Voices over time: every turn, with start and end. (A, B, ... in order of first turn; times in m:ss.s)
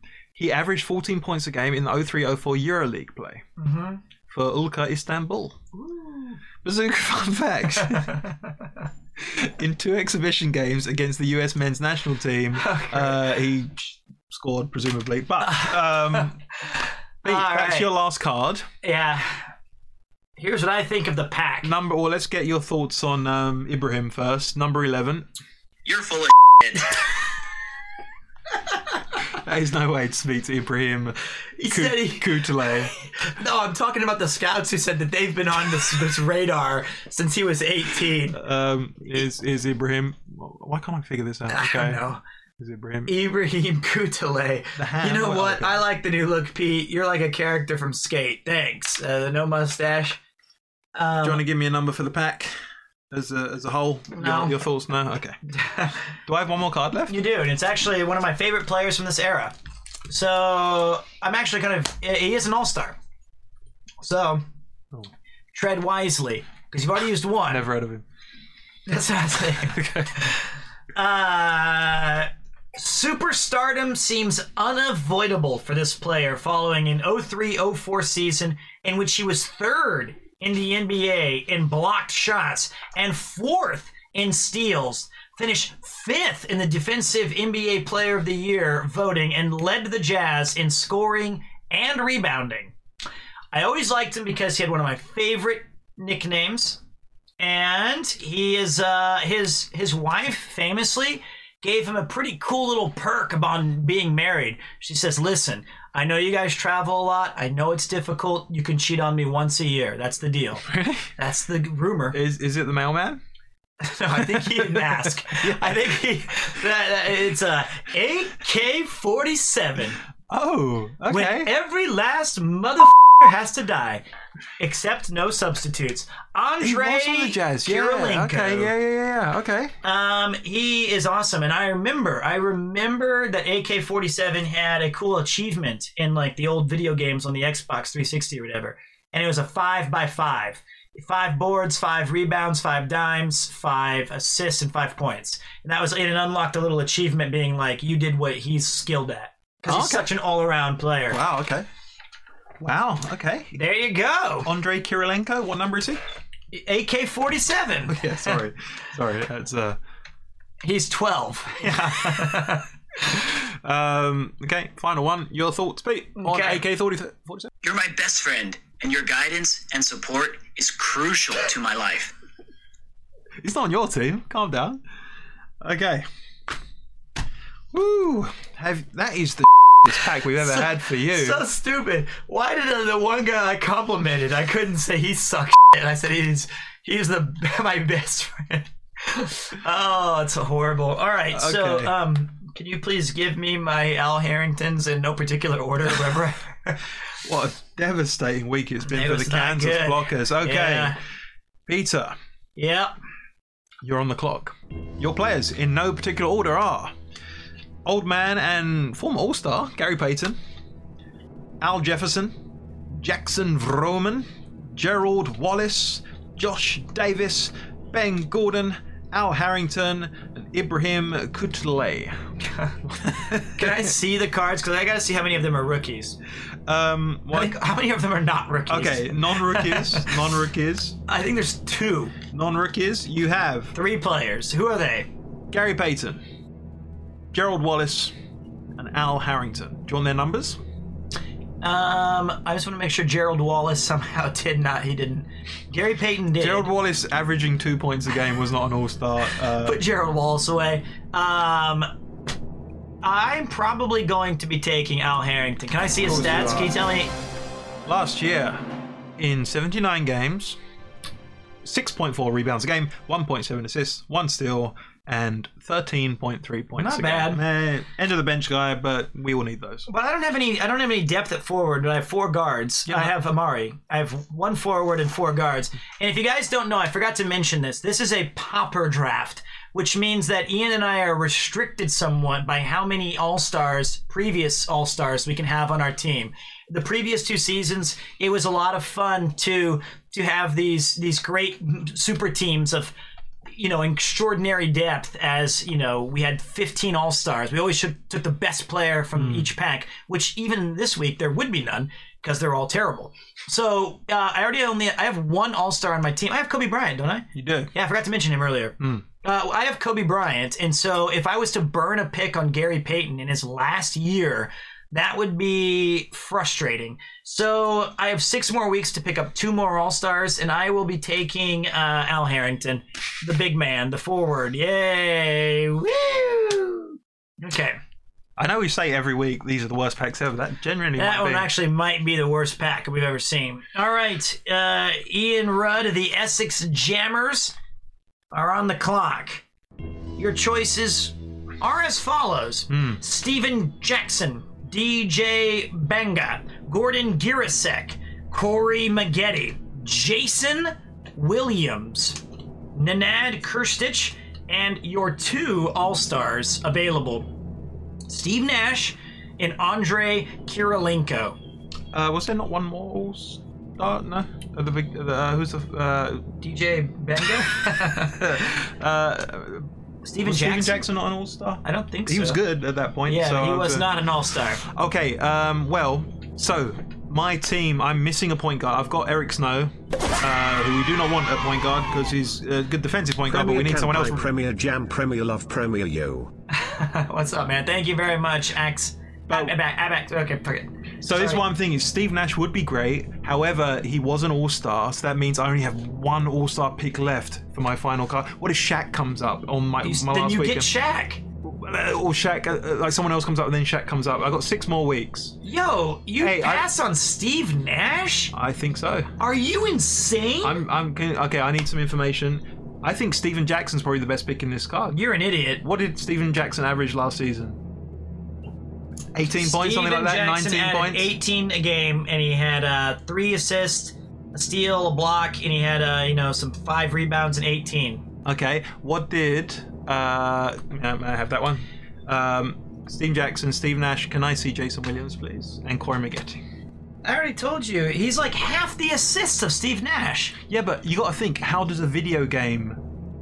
0:00.4-0:03.4 A
0:03.6-0:04.0 B
0:04.3-0:05.7 A
0:05.9-0:06.4 B
0:06.6-0:08.2 A
0:07.9-0:08.4 B
0:09.2-0:16.4 A
0:12.6-0:13.2 B
0:15.4-0:16.3 B
0:17.2-0:17.9 B
0:17.2-0:18.7 A
0:18.8-0:19.5 B
0:20.4-0:21.7 B
0:21.6-0:25.3 A
0:25.8-0:27.0 C
0:29.3-0:32.9 A
0:31.6-0:38.4 B
0:38.3-0:42.0 A
0:41.5-0:42.2 B
0:42.6-0:43.1 A
0:43.1-0:50.2 B
0:44.8-0:45.8 A
0:50.9-0:51.4 B
0:51.2-0:52.6 A
0:53.1-0:55.4 A
0:54.1-0:54.6 B
0:55.5-0:56.0 B
0:56.2-0:57.2 A
0:57.1-0:59.5 B
1:00.1-1:03.0 B
1:04.0-1:04.4 B
1:05.5-1:07.6 B
1:07.5-1:08.0 A
1:08.9-1:10.4 B
1:09.6-1:10.3 A
1:10.9-1:32.7 B
1:33.5-1:36.8 B
1:37.4-1:50.6 B
1:50.6-1:51.1 A
1:51.2-1:52.2 B
1:52.1-1:53.2 A
1:53.8-2:00.0 B
1:54.1-1:55.9 A
2:00.3-2:01.5 A
2:01.1-2:04.0 B
2:04.6-2:08.7 B
2:06.6-2:09.8 A
2:09.8-2:31.2 B
2:29.6-2:30.1 A
2:31.1-2:31.7 A
2:32.6-2:33.6 A
2:33.5-2:34.5 B
2:34.4-2:36.0 A
2:36.5-2:38.4 B
2:37.8-2:39.8 A
2:40.6-2:42.7 B
2:41.6-2:42.4 A
2:43.1-2:47.5 A
2:46.2-2:46.6 B
2:47.6-2:52.1 C
2:53.4-2:54.8 A
2:55.6-2:56.0 A
2:57.7-3:01.4 A
3:00.4-3:16.8 B
3:11.3-3:11.9 A
3:17.2-3:21.0 A
3:18.8-3:21.0 B
3:21.7-3:22.2 A
3:22.6-3:22.9 B
3:23.8-3:26.9 A
3:27.8-3:30.4 A
3:31.6-3:32.4 A
3:32.9-3:42.2 A
3:42.9-3:43.9 A
3:43.5-3:46.2 B
3:46.7-3:47.6 A
3:47.3-3:50.2 B
3:48.7-3:51.0 A
3:51.0-3:52.2 B
3:52.3-3:53.7 A
3:53.7-3:55.1 B
3:55.5-3:56.2 A
3:57.3-3:58.1 A
3:58.8-4:00.6 A
4:01.6-4:06.7 B
4:06.4-4:09.8 A
4:09.6-4:11.9 B
4:13.0-4:17.1 B
4:16.0-4:16.8 A
4:17.8-4:20.6 A
4:21.6-4:29.9 A
4:26.8-4:27.4 B
4:29.9-4:52.9 B
4:32.9-4:33.1 A
4:53.5-5:27.8 B
4:59.1-4:59.5 A
5:07.3-5:07.7 A
5:08.8-5:09.0 A
5:28.4-5:31.5 A
5:31.0-5:37.5 B
5:38.3-5:39.4 B
5:40.2-5:52.2 B
5:42.7-5:43.0 A
5:52.7-5:57.3 B
5:58.1-6:01.4 B
6:01.9-6:06.3 A
6:06.4-6:08.4 B
6:07.8-6:09.7 A
6:10.0-6:10.9 B
6:10.2-6:14.0 A
6:11.6-6:12.4 B
6:13.0-6:14.6 B
6:14.6-6:24.3 A
6:23.3-6:26.3 D
6:26.5-6:31.4 B
6:29.3-6:29.6 A
6:31.0-6:40.7 A
6:39.8-6:41.2 B
6:41.4-6:45.4 A
6:45.4-6:48.3 B
6:46.2-6:46.7 A
6:48.3-6:49.1 A
6:49.2-6:50.6 B
6:50.4-6:55.0 A
6:54.9-6:55.6 B
6:55.6-6:57.6 A
6:59.1-7:01.1 A
6:59.3-7:08.0 B
7:08.2-7:16.4 A
7:17.0-7:20.3 B
7:20.5-7:22.8 A